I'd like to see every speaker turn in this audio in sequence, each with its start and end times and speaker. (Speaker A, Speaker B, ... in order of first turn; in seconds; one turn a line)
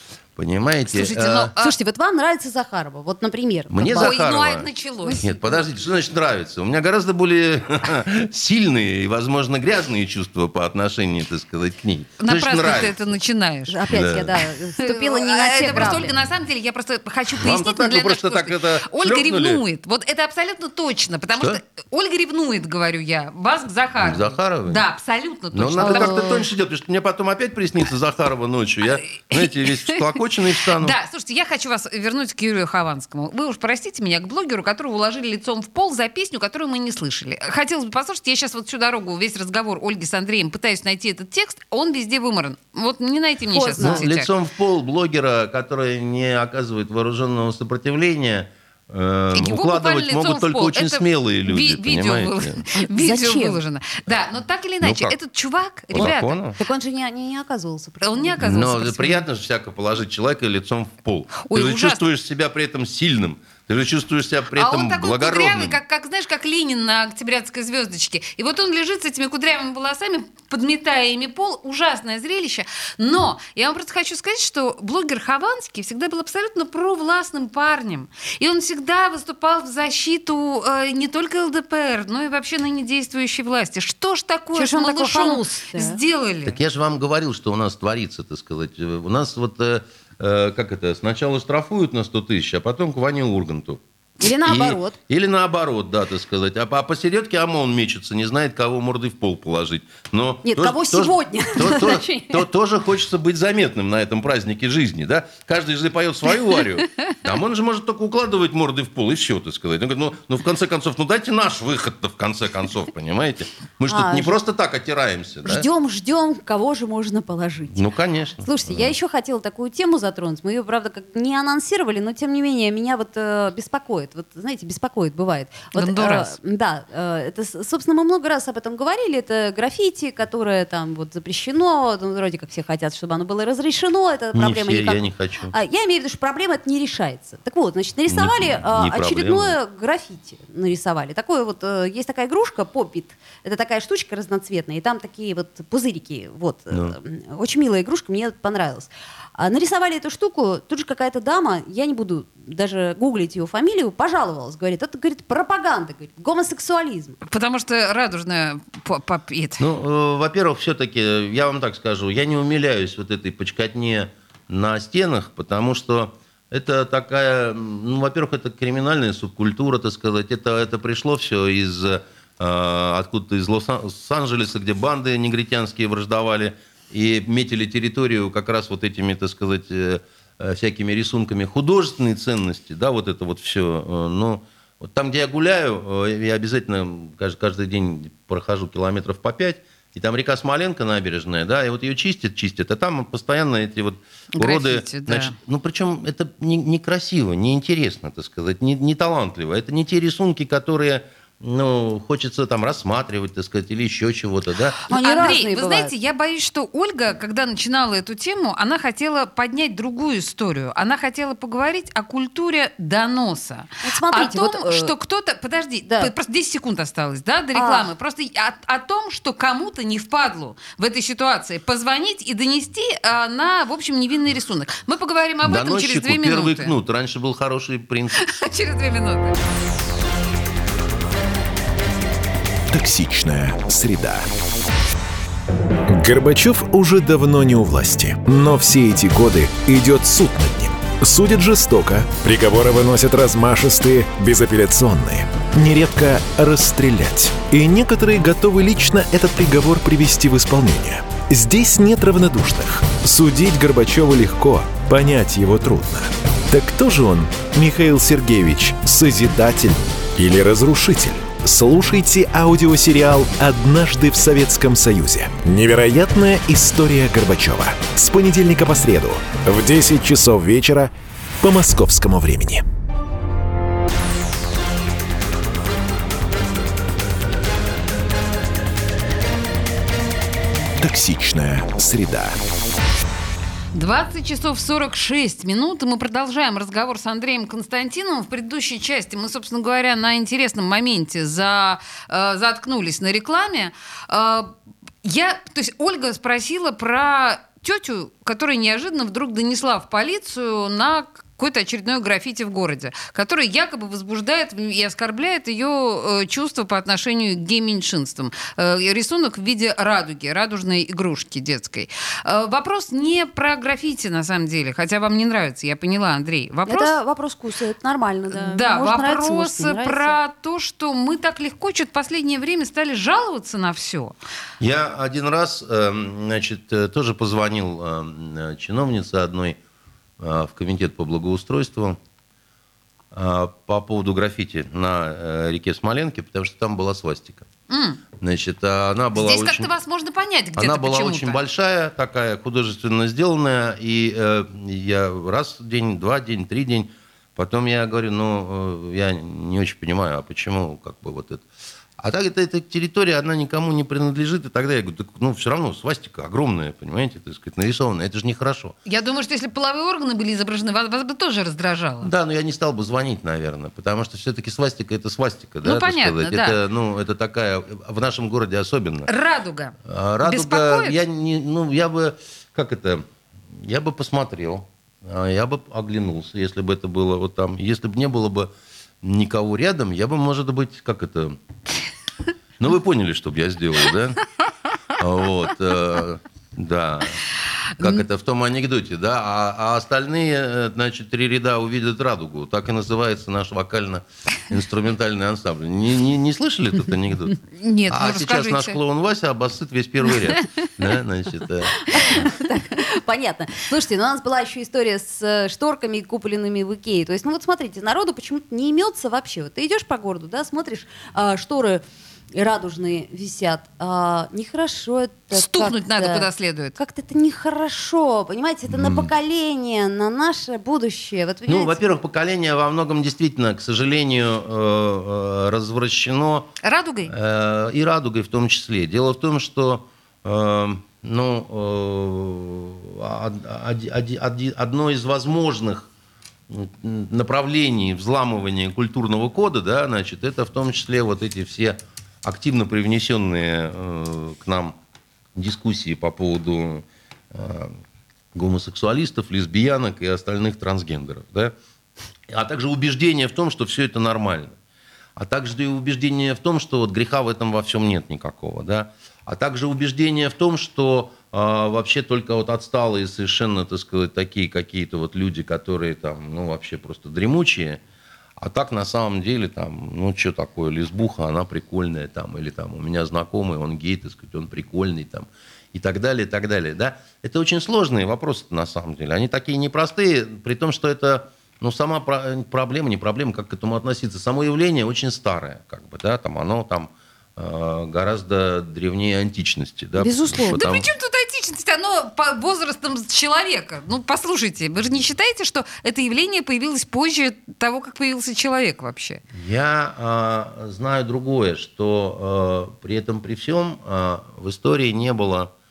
Speaker A: 0.3-1.5
Speaker B: 0.9-1.7
Speaker C: 1.6-4.2
Speaker A: 3.7-13.1
Speaker B: 3.9-5.2
Speaker C: 5.0-5.6
Speaker B: 12.2-13.8
Speaker C: 13.7-16.1
Speaker A: 13.9-14.3
Speaker B: 14.8-26.4
Speaker A: 15.7-16.1
Speaker A: 17.3-19.6
Speaker A: 24.0-24.8
Speaker A: 25.5-30.9
Speaker C: 25.8-26.3
Speaker B: 29.1-30.1
Speaker B: 30.7-44.3
Speaker C: 43.5-44.0
Speaker A: 43.8-52.6
Speaker B: 49.3-56.4
Speaker C: 52.7-53.6
Speaker A: 54.8-55.1
Speaker A: 55.9-56.6
Speaker C: 56.0-58.4
Speaker B: 58.0-59.2
Speaker A: 58.4-65.8
Speaker B: 61.5-62.0
Speaker B: 64.5-86.6
Speaker C: 84.5-86.0
Speaker A: 86.4-93.8
Speaker C: 94.2-95.0
Speaker A: 94.4-115.7
Speaker C: 100.4-102.4
Speaker C: 113.9-114.3
Speaker C: 115.4-117.8
Speaker A: 117.7-118.9
Speaker C: 118.4-135.0
Speaker B: 125.7-126.3
Speaker A: 134.3-135.5
Speaker C: 135.5-157.2
Speaker A: 138.1-139.6
Speaker B: 157.2-159.6
Speaker A: 159.6-204.8
Speaker B: 194.4-195.3
Speaker C: 204.9-205.9
Speaker B: 204.9-226.7
Speaker C: 213.8-214.9
Speaker C: 215.9-216.1
Speaker C: 217.5-217.9
Speaker A: 225.4-228.2
Speaker B: 228.2-229.3
Speaker D: 232.7-234.3
Speaker D: 235.9-272.6
Speaker D: 280.8-282.4
Speaker B: 283.7-294.5
Speaker B: 295.0-316.9
Speaker C: 316.7-320.2
Speaker B: 318.3-324.1
Speaker A: 324.6-329.6
Speaker A: 330.2-332.0
Speaker A: 333.1-337.5
Speaker B: 337.7-338.0
Speaker A: 338.2-339.7
Speaker B: 339.1-341.4
Speaker A: 340.6-351.4
Speaker A: 352.0-358.7
Speaker B: 358.9-362.1
Speaker A: 362.0-369.1
Speaker B: 365.6-366.6
Speaker B: 369.1-371.0
Speaker A: 369.9-378.5
Speaker A: 379.0-381.4
Speaker A: 382.6-384.2
Speaker A: 385.0-387.2
Speaker A: 387.8-397.4
Speaker B: 397.5-398.8
Speaker A: 397.9-402.3
Speaker C: 401.9-411.8
Speaker C: 412.3-421.8
Speaker B: 415.3-416.8
Speaker A: 418.7-419.1
Speaker A: 421.5-426.5
Speaker B: 426.6-427.1
Speaker A: 427.1-435.9
Speaker A: 436.5-444.8
Speaker A: 445.3-447.7
Speaker A: 448.3-451.5
Speaker A: 452.3-454.6
Speaker A: 455.1-467.8
Speaker A: 468.4-490.9
Speaker C: 490.0-490.6
Speaker B: 490.5-499.2
Speaker A: 499.3-505.5